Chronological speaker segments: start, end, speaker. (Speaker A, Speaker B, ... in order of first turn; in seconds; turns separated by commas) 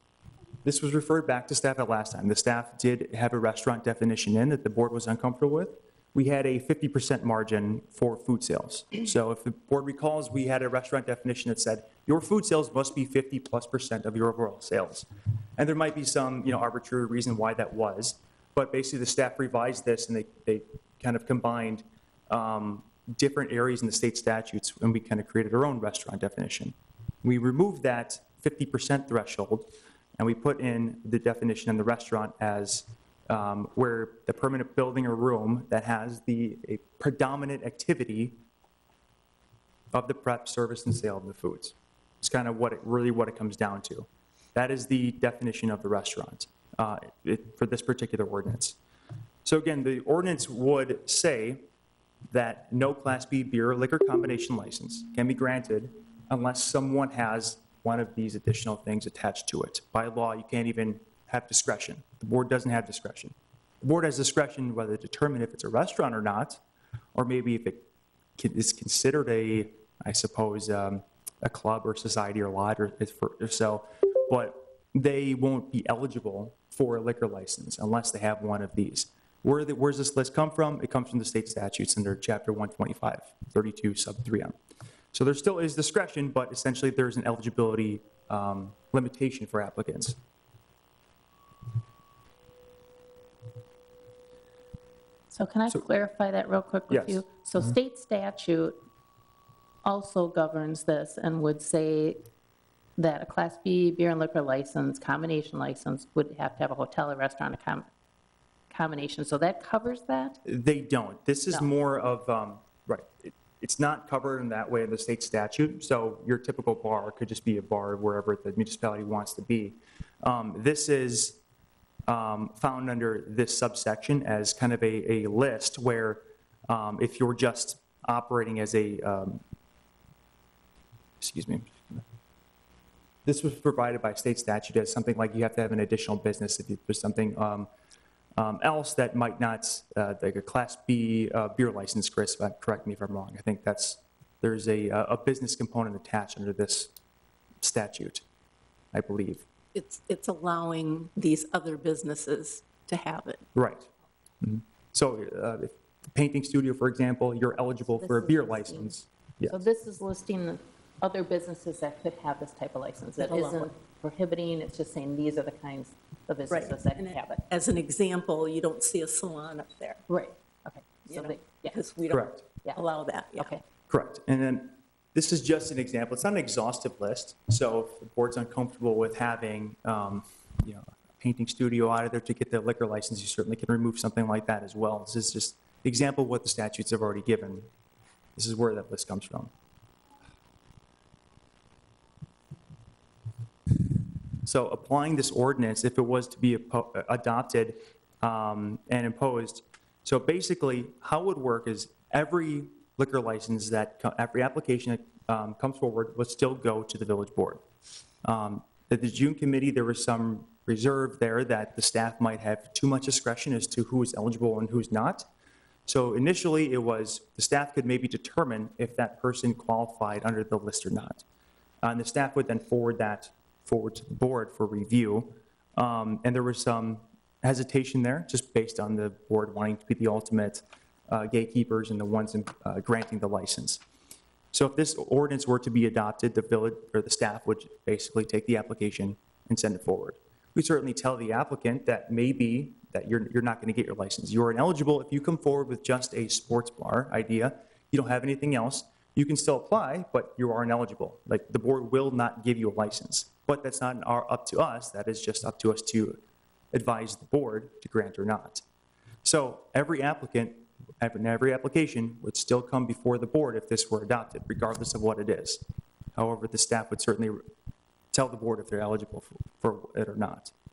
Speaker A: 0.6-38.4, Speaker A: 39.9-48.8, Speaker A: 49.5-51.7, Speaker A: 52.3-66.6, Speaker A: 67.1-67.8, Speaker A: 68.4-84.6, Speaker A: 85.1-90.2, Speaker B: 95.3-98.8, Speaker A: 96.9-97.7, Speaker B: 99.8-102.3, Speaker B: 103.0-107.9, Speaker B: 108.7-110.4, Speaker A: 110.5-121.4, Speaker A: 122.1-129.4, Speaker A: 131.2-132.0, Speaker A: 133.2-137.7, Speaker A: 138.4-146.9, Speaker A: 147.6-148.2, Speaker A: 148.9-149.5, Speaker C: 149.7-153.5, Speaker A: 153.6-153.9, Speaker A: 154.4-159.7, Speaker B: 158.0-158.9, Speaker B: 159.5-167.5, Speaker C: 163.2-163.7, Speaker C: 166.5-170.1, Speaker B: 170.1-171.8, Speaker C: 171.1-173.6, Speaker A: 172.1-172.4, Speaker B: 173.4-173.6, Speaker A: 173.9-187.7, Speaker A: 188.4-189.5, Speaker A: 194.4-207.6, Speaker A: 208.2-215.3, Speaker A: 215.9-221.2, Speaker A: 221.8-233.8, Speaker A: 234.5-256.2, Speaker A: 256.7-258.6, Speaker A: 259.2-267.5, Speaker A: 268.1-270.5